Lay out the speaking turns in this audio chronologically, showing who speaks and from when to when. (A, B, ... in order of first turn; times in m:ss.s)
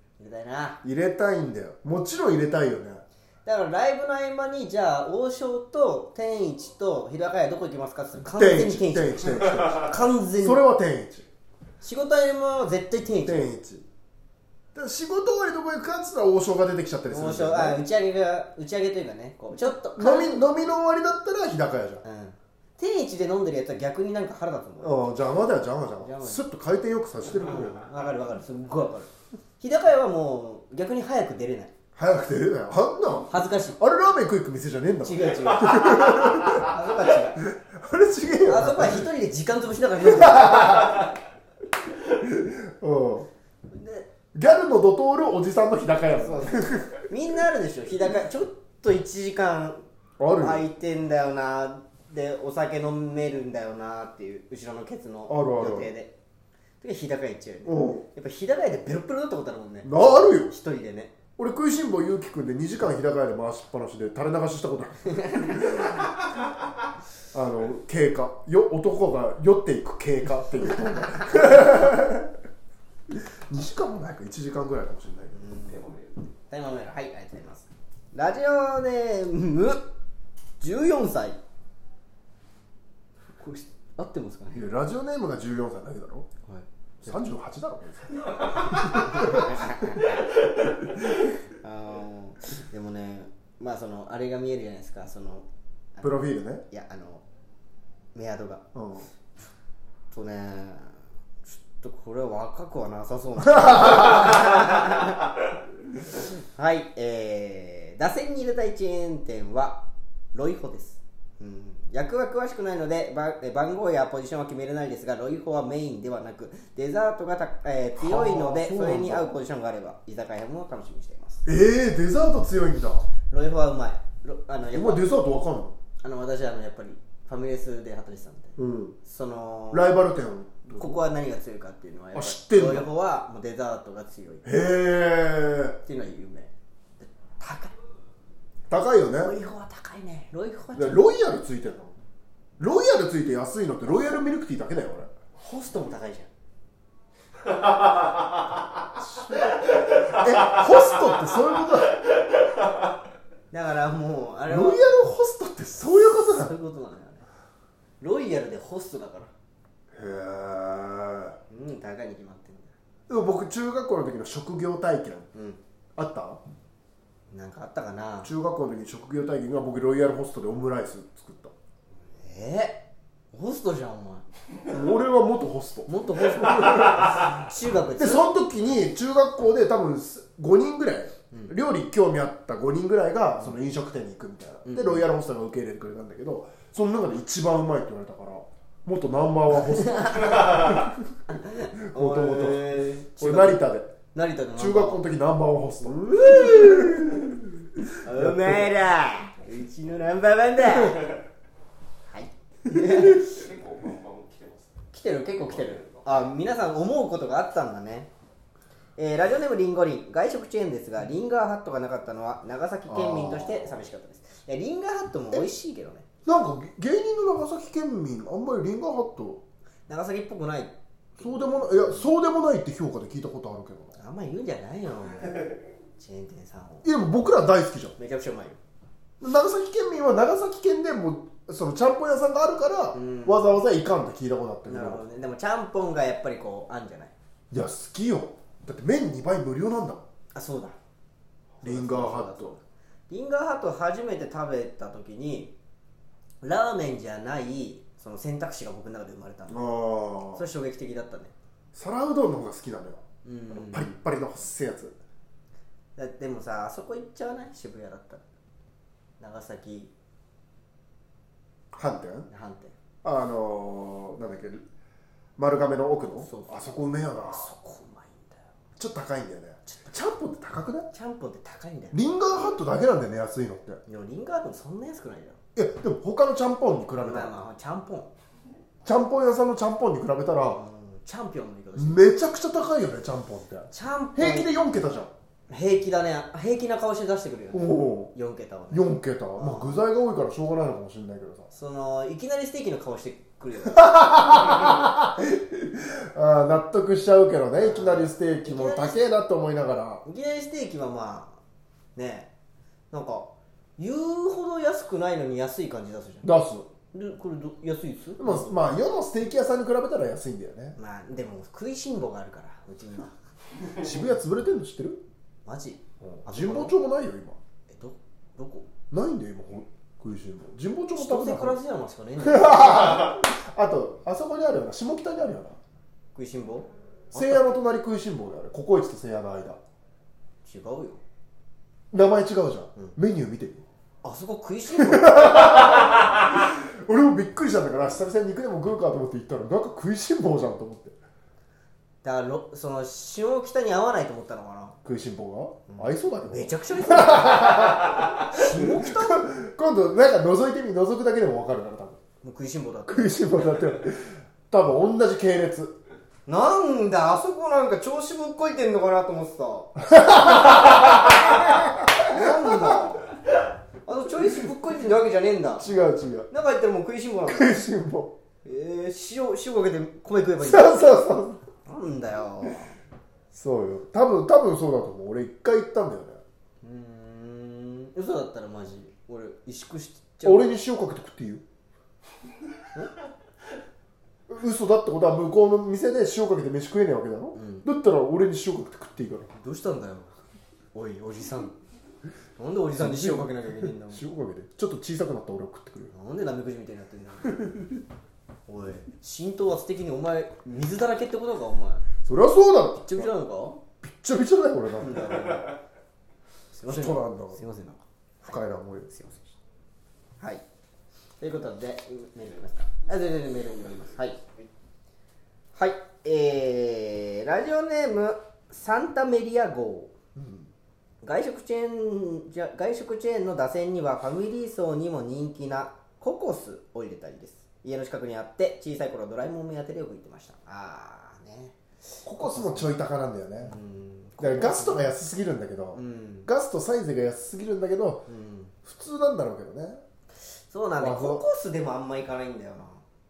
0:00.2-0:00.8 A
0:00.8-0:03.0 B
0:03.4-0:10.6 A
0:08.2-0:11.3 B
0:11.8-0:13.5 A
0:13.2-0:13.9 B
0:14.8-0:17.8 B
0:17.1-0:20.5 A
0:20.0-0:22.0 B
0:22.0-0:25.1 A
0:24.8-0:27.8 B
0:26.0-0:26.4 A
0:27.4-0:31.7 A
0:32.0-0:36.8 B
0:33.3-0:33.8 A
0:35.0-0:37.4 A
0:37.4-0:39.1 B
0:38.5-0:41.1 A
0:40.0-0:41.1 B
0:42.1-0:43.3 B
0:43.7-0:44.1 A
0:44.3-0:47.1 B
0:46.2-0:49.8 A
0:50.2-0:50.7 B
0:50.4-0:56.2 A
0:55.3-0:55.9 B
0:56.8-1:01.1 A
0:57.7-0:58.0 B
0:59.8-1:00.5 B
1:01.4-1:06.1 B
1:05.1-1:05.9 A
1:07.3-1:12.3 B
1:10.9-1:11.7 A
1:13.1-1:15.4 B
1:15.3-1:15.8 A
1:15.5-1:16.3 C
1:16.5-1:19.8 A
1:20.6-1:21.4 A
1:23.4-1:24.7 A
1:24.5-1:26.3 B
1:26.5-1:27.3 A
1:27.0-1:30.1 B
1:28.7-1:30.4 A
1:31.5-1:36.1 A
1:36.0-1:36.6 B
1:36.7-1:37.2 A
1:38.2-1:38.6 A
1:38.7-1:39.1 B
1:40.1-1:45.3 A
1:43.6-1:44.5 B
1:46.4-2:01.4 A
1:58.0-1:59.4 B
2:01.4-2:03.1 B
2:03.3-2:05.0 A
2:04.7-2:05.8 B
2:06.0-2:09.9 A
2:08.6-2:09.0 B
2:09.7-2:11.0 B
2:10.8-2:14.5 A
2:12.1-2:12.9 B
2:14.4-2:15.8 B
2:15.8-2:17.8 A
2:18.7-2:19.4 B
2:19.2-2:21.0 A
2:20.8-2:22.0 B
2:22.6-2:25.1 B
2:25.4-2:26.3 A
2:27.5-2:28.4 C
2:29.0-2:32.0 B
2:29.5-2:30.8 C
2:32.4-2:32.8 C
2:33.5-2:34.8 A
2:34.5-2:36.5 B
2:36.3-2:37.2 A
2:38.0-2:39.3 A
2:39.9-2:41.4 B
2:41.5-2:42.7 A
2:43.1-2:45.3 B
2:45.3-2:45.6 A
2:46.0-2:46.4 B
2:47.3-2:48.3 A
2:48.2-2:51.5 B
2:52.2-2:54.3 A
2:54.7-2:57.4 B
2:55.9-2:58.3 A
2:58.0-3:11.1 B
3:01.3-3:01.6 A
3:04.6-3:05.1 A
3:09.8-3:15.0 A
3:11.8-3:13.9 B
3:14.6-3:18.7 B
3:15.8-3:17.3 A
3:18.0-3:21.2 A
3:22.1-3:23.4 A
3:23.0-3:24.8 C
3:24.9-3:28.1 A
3:25.4-3:26.3 C
3:29.0-3:36.1 A
3:32.9-3:33.8 B
3:36.2-3:39.4 B
3:39.9-3:42.1 A
3:41.2-3:44.0 B
3:44.0-3:46.9 A
3:46.8-3:48.0 B
3:48.0-3:48.6 A
3:49.2-3:55.0 B
3:52.9-3:53.6 A
3:54.6-3:57.1 A
3:57.5-4:00.1 B
4:00.3-4:00.8 A
4:01.6-4:05.5 A
4:01.6-4:02.6 B
4:06.4-4:09.6 A
4:09.5-4:10.4 B
4:10.3-4:11.3 A
4:11.7-4:15.0 B
4:13.2-4:13.9 A
4:16.0-4:18.2 A
4:19.2-4:19.9 A
4:21.7-4:22.3 B
4:22.3-4:22.7 A
4:23.0-4:24.7 B
4:25.4-4:27.5 B
4:26.2-4:28.4 A
4:28.8-4:30.9 B
4:30.9-4:32.0 A
4:31.9-4:33.8 B
4:33.9-4:35.4 A
4:35.6-4:37.3 B
4:37.0-4:38.1 A
4:38.8-4:40.6 B
4:40.5-4:42.0 A
4:41.8-4:45.1 B
4:43.7-4:44.5 A
4:45.5-4:49.8 A
4:47.5-4:48.1 B
4:48.7-4:51.5 B
4:51.5-4:54.6 A
4:53.7-5:00.0 B
4:57.6-4:59.0 A
5:00.1-5:01.4 A
5:02.0-5:02.3 A
5:02.9-5:06.3 A
5:06.2-5:06.7 B
5:06.9-5:08.6 A
5:08.2-5:10.8 B
5:10.8-5:13.1 A
5:13.7-5:15.0 B
5:15.4-5:16.8 A
5:16.0-5:17.4 B
5:17.7-5:18.7 A
5:18.9-5:21.6 B
5:21.0-5:23.2 A
5:22.2-5:25.6 B
5:26.2-5:27.5 A
5:27.1-5:29.6 B
5:30.4-5:31.0 A
5:31.9-5:33.6 B
5:34.0-5:36.0 A
5:34.8-5:41.0 B
5:42.0-5:44.8 A
5:44.8-5:52.0 B
5:45.7-5:49.3 A
5:52.2-5:53.4 A
5:52.9-5:55.8 B
5:56.3-6:03.1 A
5:59.8-6:02.8 B
6:03.8-6:05.7 A
6:05.6-6:06.3 B
6:06.3-6:07.5 A
6:07.3-6:08.2 B
6:08.4-6:11.0 A
6:10.4-6:11.4 B
6:11.6-6:12.8 A
6:13.3-6:16.2 B
6:16.6-6:20.5 A
6:20.2-6:21.4 B
6:24.3-6:29.3 B
6:27.4-6:27.7 A
6:29.3-6:30.2 A
6:30.7-6:31.6 A
6:32.4-6:34.0 A
6:32.8-6:35.9 B
6:35.9-6:37.5 A
6:37.4-6:37.7 B
6:38.5-6:41.9 A
6:42.0-6:43.1 B
6:42.8-6:43.6 A
6:43.8-6:45.4 B
6:44.8-6:45.6 A
6:46.5-6:49.4 A
6:46.7-6:47.4 B
6:48.2-6:48.9 B
6:51.2-6:54.5 A
6:55.6-6:59.9 A
7:00.2-7:00.5 B
7:01.0-7:12.8 A
7:12.0-7:13.6 B
7:13.4-7:14.8 A
7:14.2-7:18.1 B
7:15.7-7:16.3 A
7:18.1-7:18.5 A
7:18.6-7:19.8 B
7:20.5-7:22.8 A
7:20.8-7:21.2 B